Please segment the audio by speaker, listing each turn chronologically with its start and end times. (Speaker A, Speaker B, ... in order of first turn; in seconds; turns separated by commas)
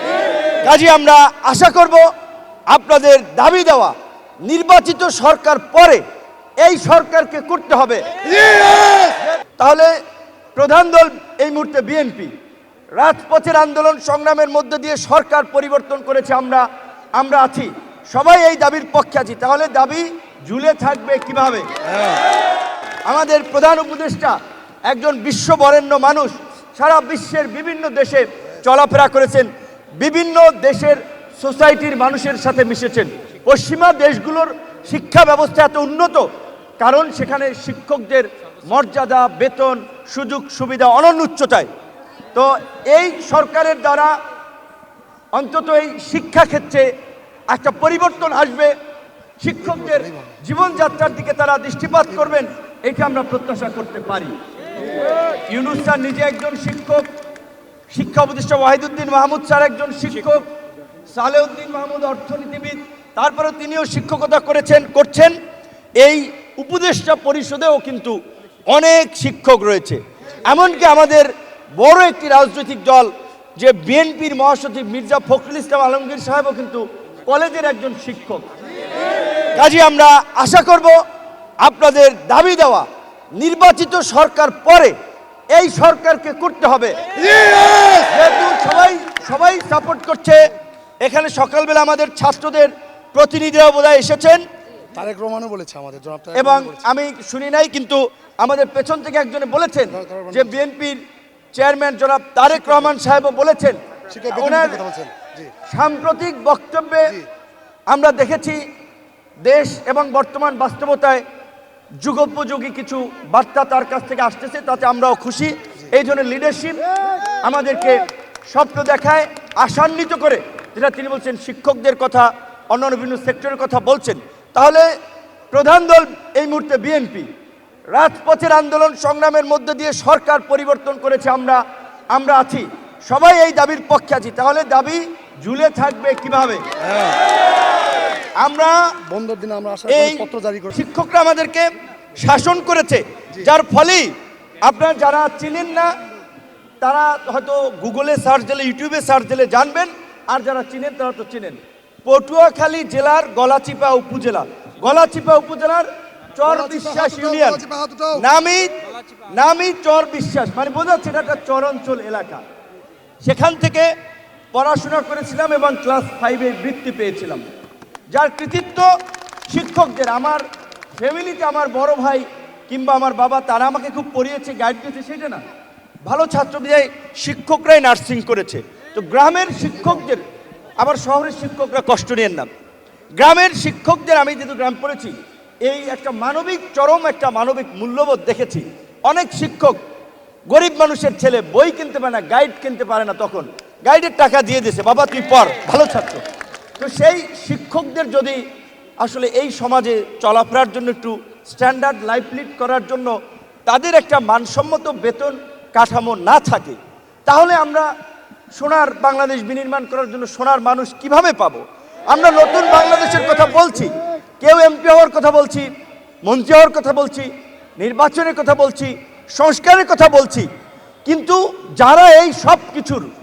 Speaker A: 0.6-2.1, Speaker A: 2.7-6.0, Speaker A: 6.6-8.1, Speaker A: 9.0-9.9, Speaker A: 10.5-12.3, Speaker A: 13.0-22.2, Speaker A: 23.1-24.4, Speaker A: 24.9-36.3, Speaker A: 36.8-41.7, Speaker A: 42.3-44.1, Speaker A: 45.3-46.9, Speaker A: 47.5-48.7, Speaker A: 49.4-54.3, Speaker A: 55.5-57.1, Speaker A: 57.9-60.5, Speaker A: 61.1-65.3, Speaker A: 66.0-68.2, Speaker A: 68.7-78.5, Speaker A: 79.5-81.0, Speaker A: 81.6-84.9, Speaker A: 85.5-87.0, Speaker A: 87.9-90.5, Speaker A: 91.0-94.4, Speaker B: 94.9-96.5, Speaker A: 96.3-101.0, Speaker A: 101.5-105.0, Speaker B: 104.2-105.4, Speaker A: 105.7-107.2, Speaker A: 107.9-108.6, Speaker A: 109.4-111.2, Speaker A: 112.0-116.9, Speaker A: 117.4-124.9, Speaker A: 125.5-127.3, Speaker A: 127.9-137.1, Speaker A: 138.4-139.0, Speaker B: 139.1-140.7, Speaker A: 139.9-145.9, Speaker A: 146.8-158.8, Speaker B: 157.1-158.2, Speaker A: 159.3-162.4, Speaker A: 163.2-163.9, Speaker A: 164.5-167.4, Speaker A: 168.1-168.9, Speaker A: 169.5-170.4, Speaker A: 170.9-175.4, Speaker A: 176.1-180.2, Speaker A: 180.8-182.5, Speaker A: 183.2-189.8, Speaker A: 190.5-196.2, Speaker A: 196.8-198.4, Speaker A: 199.0-207.9, Speaker A: 208.6-215.7, Speaker A: 216.2-220.5, Speaker A: 221.1-223.1